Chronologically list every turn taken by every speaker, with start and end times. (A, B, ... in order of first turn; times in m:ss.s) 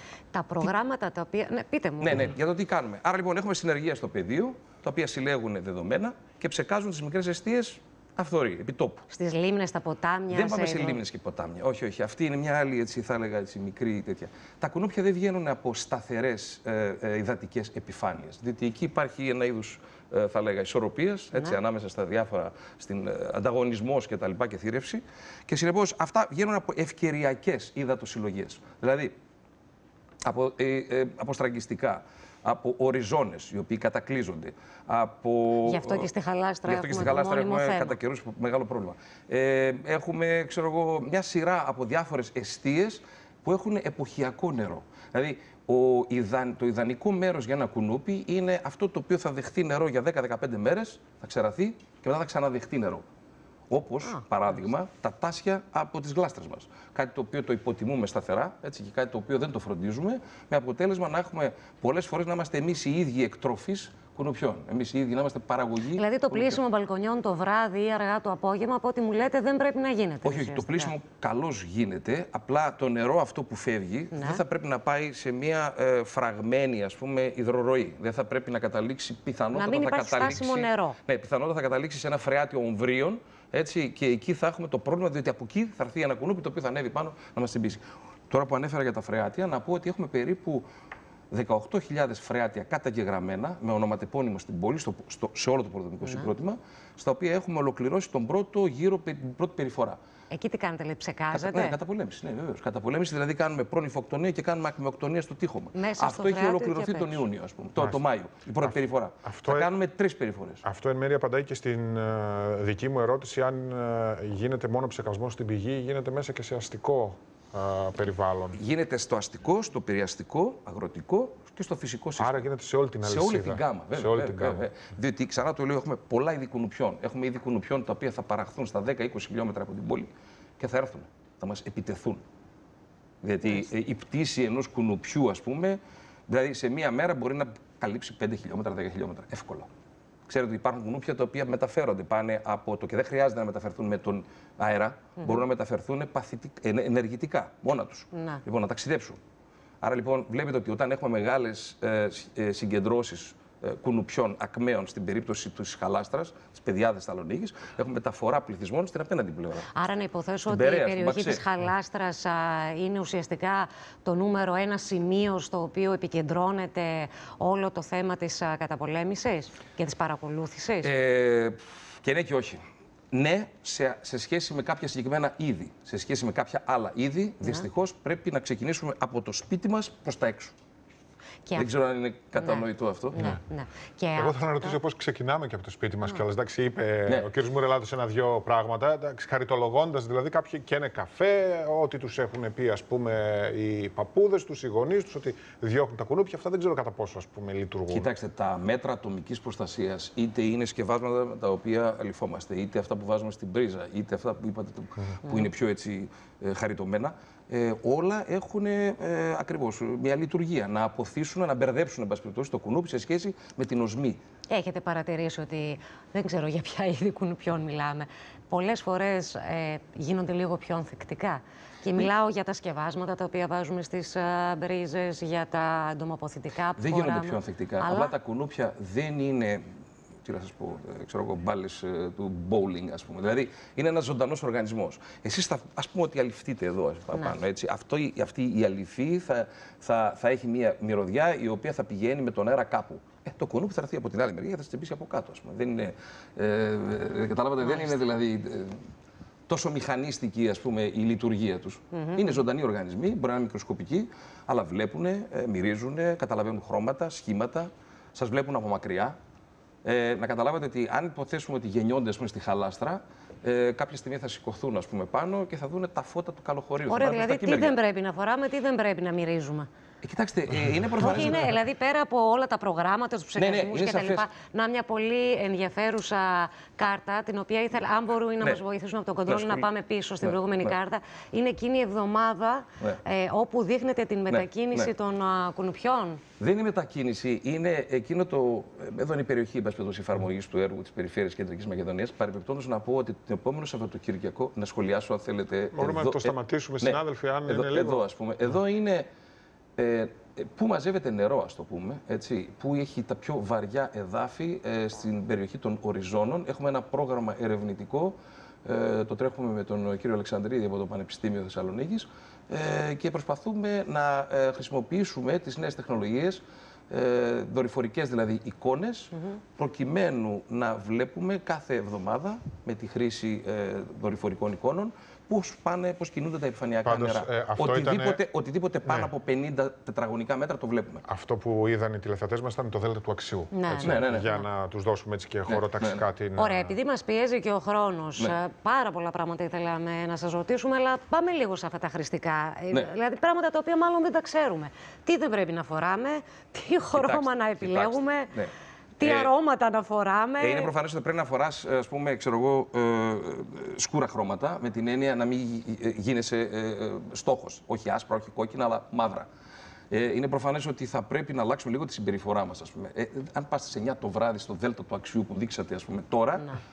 0:00.3-0:02.3 A
0:02.0-0:09.1 B
0:09.1-0:11.0 A
0:10.3-0:29.2 B
0:30.2-0:36.1 B
0:35.6-0:38.0 A
0:36.7-0:53.0 B
0:53.7-1:06.6 B
1:05.9-1:10.9 A
1:10.2-1:30.7 B
1:14.1-1:14.4 A
1:19.5-1:21.0 A
1:31.3-1:40.0 B
1:36.0-1:36.3 A
1:40.3-1:41.8 A
1:41.3-1:50.6 B
1:45.7-1:47.2 A
1:48.6-1:49.7 C
1:50.6-1:58.6 C
1:58.6-2:02.5 B
2:02.2-2:04.7 C
2:03.0-2:12.2 B
2:13.2-2:19.7 B
2:20.3-2:29.2 B
2:28.1-2:28.4 A
2:29.8-2:39.7 B
2:39.7-2:50.9 A
2:40.5-2:41.4 B
2:50.8-2:52.6 B
2:53.1-3:00.5 B
3:01.5-3:01.7 A
3:01.6-3:03.3 B
3:02.4-3:04.8 A
3:04.2-3:18.1 C
3:17.9-3:34.2 B
3:34.5-3:48.2 A
3:46.8-3:49.6 B
3:50.2-4:08.8 B
4:07.6-4:08.0 A
4:09.5-4:19.2 B
4:11.9-4:12.4 A
4:19.8-4:27.8 B
4:26.9-4:29.7 A
4:30.0-4:31.5 B
4:31.0-4:46.2 A
4:33.4-4:34.3 B
4:39.3-4:39.7 B
4:40.2-4:40.7 B
4:44.3-4:44.9 B
4:46.4-4:59.1 B
4:55.7-4:58.1 C
4:59.8-5:31.0 B
5:26.8-5:28.2 C
5:28.8-5:29.1 C
5:31.1-5:36.8 C
5:33.5-5:34.4 A
5:33.8-5:34.3 B
5:35.5-5:36.0 B
5:36.4-5:48.3 A
5:46.9-5:49.3 B
5:49.0-5:50.7 A
5:50.4-5:59.3 B
5:59.9-6:06.5 B